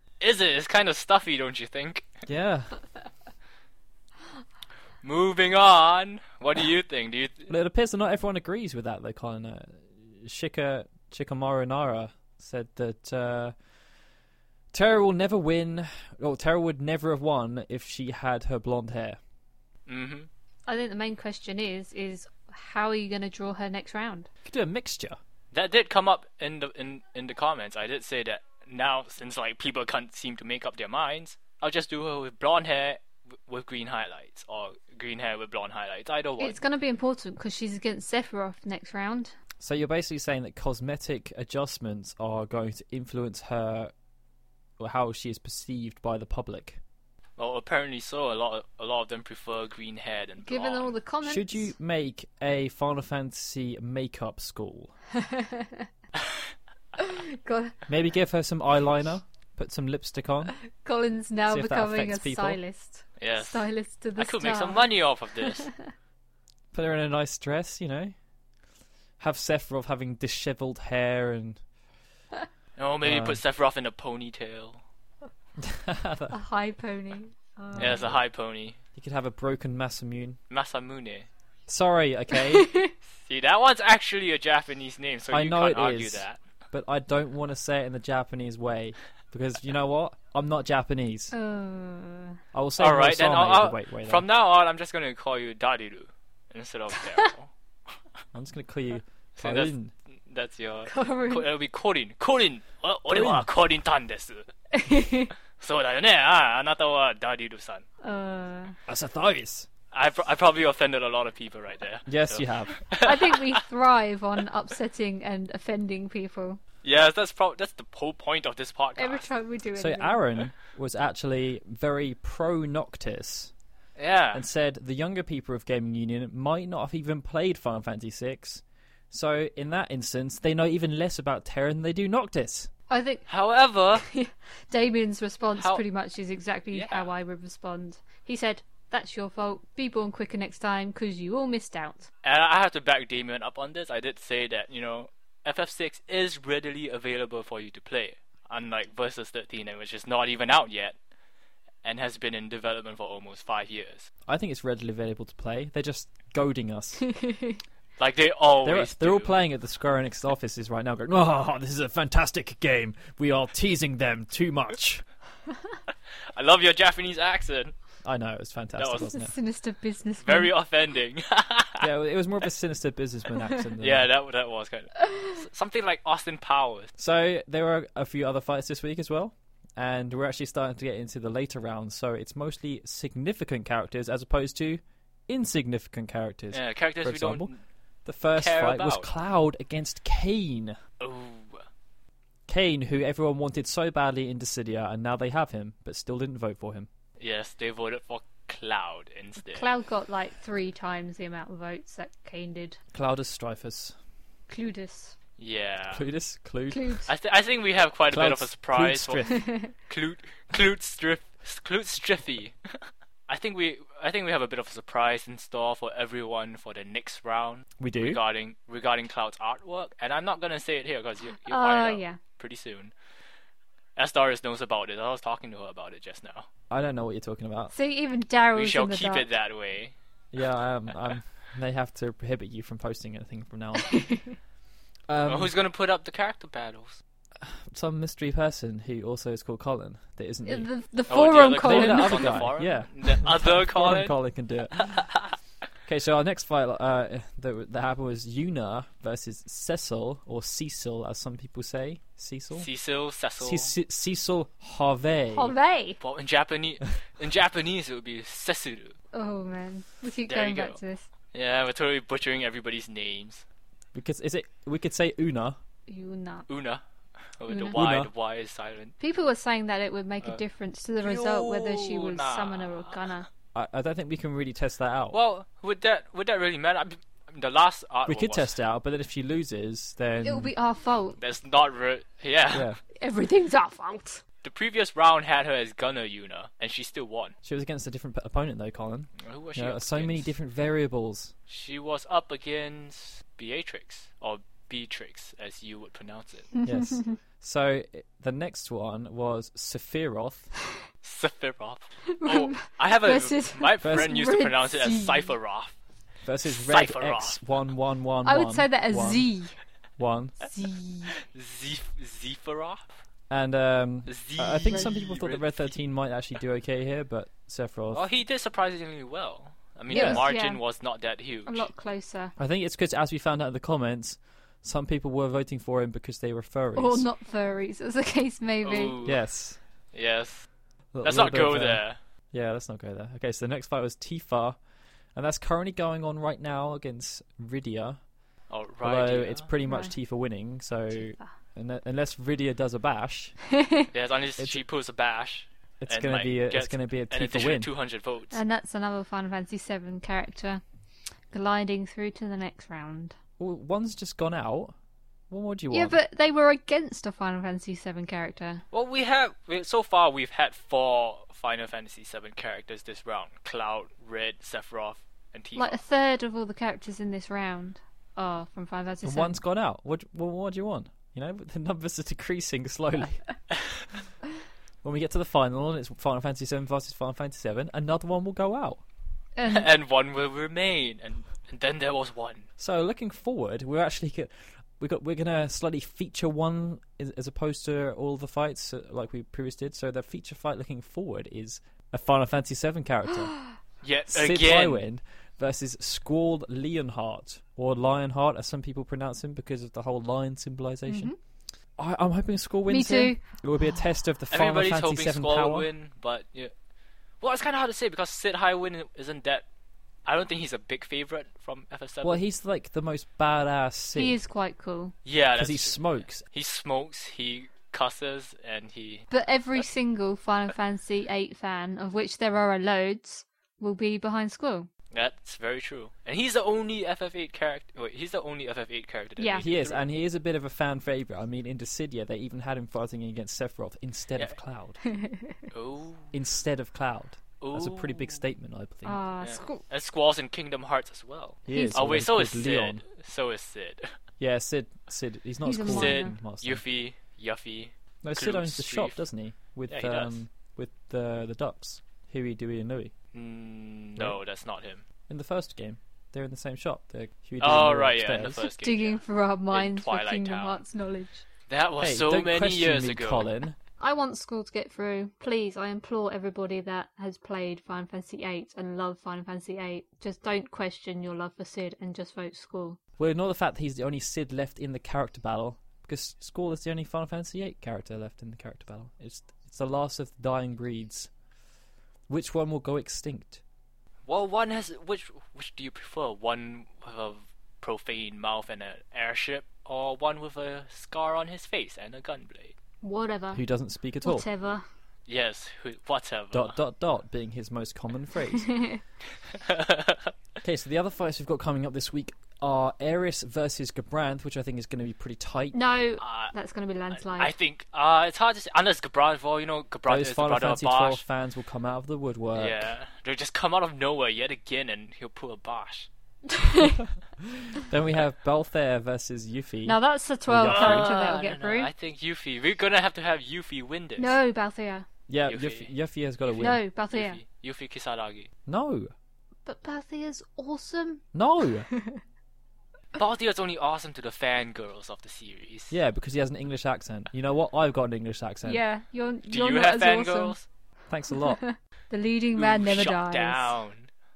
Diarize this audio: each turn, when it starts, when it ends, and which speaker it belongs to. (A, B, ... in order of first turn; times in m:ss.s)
0:00.2-0:02.1 A
0:02.3-0:02.8 B
0:05.0-0:07.5 A
0:07.5-0:13.5 B
0:14.7-0:19.2 B
0:19.9-0:20.3 A
0:20.7-0:24.3 C
0:24.4-0:25.2 B
0:25.5-0:36.6 A
0:36.4-0:39.4 C
0:39.6-0:43.9 B
0:44.8-0:46.8 B
0:47.4-0:50.9 A
0:50.4-0:51.7 C
0:51.2-0:55.0 B
0:55.2-0:55.9 C
0:57.0-0:57.8 C
0:57.9-1:00.5 B
1:00.7-1:05.9 C
1:01.5-1:02.6 B
1:03.2-1:05.7 A
1:06.7-1:08.1 B
1:09.2-1:11.6 B
1:12.8-1:14.8 A
1:13.0-1:13.4 B
1:15.6-1:16.4 B
1:16.3-1:18.1 C
1:17.7-1:18.2 B
1:17.8-1:18.8 A
1:19.0-1:20.4 B
1:20.5-1:21.3 A
1:21.7-1:22.7 B
1:22.4-1:22.9 C
1:23.3-1:26.4 A
1:25.3-1:31.3 B
1:31.3-1:32.4 C
1:32.5-1:34.3 B
1:32.8-1:37.5 A
1:38.3-1:39.9 B
1:39.4-1:39.8 A
1:40.3-1:44.5 A
1:40.9-1:41.5 C
1:43.1-1:43.5 B
1:44.7-1:45.3 C
1:45.6-1:47.8 A
1:48.0-1:48.8 C
1:48.9-1:49.7 B
1:49.9-1:53.6 A
1:52.1-1:52.8 B
1:53.0-1:56.6 C
1:56.8-1:59.2 A
1:59.0-2:00.3 C
1:59.7-2:03.5 B
2:04.0-2:04.4 A
2:04.3-2:12.7 B
2:12.9-2:13.3 C
2:13.3-2:14.1 A
2:14.0-2:22.1 C
2:15.5-2:15.8 A
2:16.7-2:17.1 A
2:22.2-2:31.0 A
2:31.8-2:34.1 A
2:34.3-2:37.1 B
2:37.1-2:37.6 C
2:38.0-2:39.4 A
2:38.6-2:45.0 B
2:46.3-2:47.7 A
2:48.0-2:49.4 B
2:48.8-2:49.1 A
2:49.0-2:50.5 C
2:50.2-2:51.9 A
2:51.8-2:54.1 B
2:53.8-2:56.9 A
2:57.0-3:07.5 B
3:06.5-3:07.6 A
3:08.0-3:10.8 B
3:08.3-3:09.1 A
3:11.0-3:11.6 A
3:12.5-3:16.9 B
3:17.2-3:19.7 A
3:19.4-3:22.8 C
3:22.9-3:24.0 B
3:24.5-3:25.2 C
3:25.4-3:26.1 A
3:25.9-3:27.0 B
3:26.7-3:27.1 C
3:27.1-3:29.3 A
3:28.1-3:29.5 B
3:29.3-3:29.7 C
3:29.9-3:32.6 A
3:33.3-3:42.9 A
3:37.8-3:38.2 B
3:41.3-3:42.2 C
3:44.0-3:46.5 A
3:46.7-3:47.7 B
3:47.7-3:49.3 C
3:48.5-3:49.9 A
3:50.3-3:54.0 B
3:53.8-3:54.4 C
3:55.1-3:55.5 B
3:55.3-3:57.0 A
3:57.4-4:00.7 B
4:00.4-4:02.6 C
4:01.1-4:04.2 A
4:01.6-4:04.9 B
4:04.8-4:05.2 A
4:05.9-4:12.7 B
4:12.6-4:13.7 A
4:13.4-4:15.5 B
4:15.3-4:16.0 C
4:16.0-4:19.0 A
4:19.1-4:21.1 C
4:20.3-4:20.8 A
4:21.3-4:23.4 A
4:23.9-4:25.6 B
4:25.9-4:26.5 C
4:26.5-4:26.8 A
4:27.4-4:29.0 A
4:27.5-4:27.8 C
4:27.7-4:28.1 B
4:29.0-4:33.3 C
4:31.0-4:33.2 A
4:33.5-4:35.2 B
4:35.1-4:38.6 A
4:38.1-4:40.5 B
4:40.2-4:41.2 C
4:41.2-4:42.7 A
4:42.5-4:42.8 B
4:43.0-4:44.2 C
4:44.4-4:47.4 A
4:47.4-4:51.3 B
4:49.2-4:50.4 A
4:51.5-4:56.5 A
4:56.6-4:57.2 C
4:56.6-5:00.5 B
5:01.0-5:05.8 A
5:02.1-5:05.4 C
5:03.8-5:04.1 B
5:06.2-5:09.3 B
5:06.4-5:07.4 A
5:08.2-5:09.6 C
5:10.0-5:10.4 B
5:10.4-5:11.1 C
5:11.3-5:12.9 A
5:13.3-5:18.0 B
5:14.1-5:15.8 A
5:17.9-5:21.7 A
5:19.9-5:20.3 B
5:19.9-5:20.6 C
5:21.4-5:22.4 C
5:22.4-5:27.1 B
5:26.8-5:29.0 C
5:28.6-5:29.2 A
5:29.0-5:29.6 B
5:29.9-5:30.5 A
5:30.9-5:34.6 B
5:31.0-5:32.0 A
5:35.2-5:38.0 B
5:38.5-5:39.5 A
5:38.8-5:43.4 B
5:39.6-5:40.0 C
5:40.9-5:41.4 C
5:43.9-5:48.4 A
5:45.8-5:47.7 B
5:48.3-5:50.6 C
5:51.3-5:53.2 C
5:53.4-5:54.7 B
5:55.3-5:56.0 B
5:55.7-5:58.6 C
5:58.7-6:05.8 A
6:05.6-6:09.4 C
6:09.0-6:13.4 B
6:14.8-6:18.8 B
6:19.4-6:19.7 C
6:19.5-6:22.5 A
6:22.6-6:33.4 B
6:33.8-6:34.9 A
6:34.1-6:41.1 B
6:40.9-6:41.2 C
6:41.8-6:45.7 B
6:42.7-6:43.2 C
6:44.3-6:46.5 A
6:47.2-6:49.4 A
6:50.1-6:52.2 A
6:52.0-6:54.2 B
6:54.0-6:54.9 C
6:55.0-6:59.1 A
6:55.4-6:56.3 B
6:59.1-7:04.7 C
7:04.9-7:09.8 A
7:09.2-7:09.4 C
7:09.3-7:14.8 B
7:14.8-7:15.4 C
7:15.5-7:16.1 A
7:16.1-7:19.0 B
7:17.4-7:18.2 A
7:18.8-7:19.6 C
7:19.2-7:23.9 A
7:21.5-7:22.8 B
7:21.5-7:21.9 C
7:24.2-7:26.6 B
7:25.4-7:26.2 C
7:25.6-7:29.1 A
7:28.0-7:32.9 B
7:29.7-7:30.2 A
7:33.1-7:34.8 A
7:35.1-7:38.4 B
7:37.4-7:40.6 A
7:38.6-7:41.2 C
7:41.5-7:43.3 A
7:41.8-7:43.6 B
7:43.8-7:52.8 C
7:53.0-8:01.1 B
8:02.1-8:03.4 B
8:04.1-8:12.5 A
8:12.8-8:13.4 C
8:13.3-8:14.3 B
8:14.0-8:14.6 C
8:15.1-8:16.6 A
8:16.3-8:18.5 B
8:18.4-8:18.8 C
8:19.3-8:20.1 A
8:20.4-8:25.6 B
8:25.5-8:27.3 C
8:26.0-8:26.3 A
8:27.0-8:31.0 A
8:29.9-8:32.7 B
8:32.3-8:35.9 A
8:36.3-8:36.8 C
8:37.4-8:40.9 B
8:39.7-8:41.7 C
8:40.5-8:44.2 A
8:44.0-8:44.9 C
8:45.1-8:46.6 B
8:45.3-8:45.7 A
8:46.2-8:48.3 A
8:46.4-8:47.2 C
8:48.5-8:48.9 B
8:49.4-8:51.0 C
8:51.1-8:51.7 B
8:51.6-8:52.0 C
8:53.0-8:55.8 A
8:55.7-8:58.6 B
8:58.4-9:00.4 C
8:59.3-9:00.5 A
9:00.9-9:01.4 B
9:01.1-9:03.6 C
9:02.3-9:03.9 A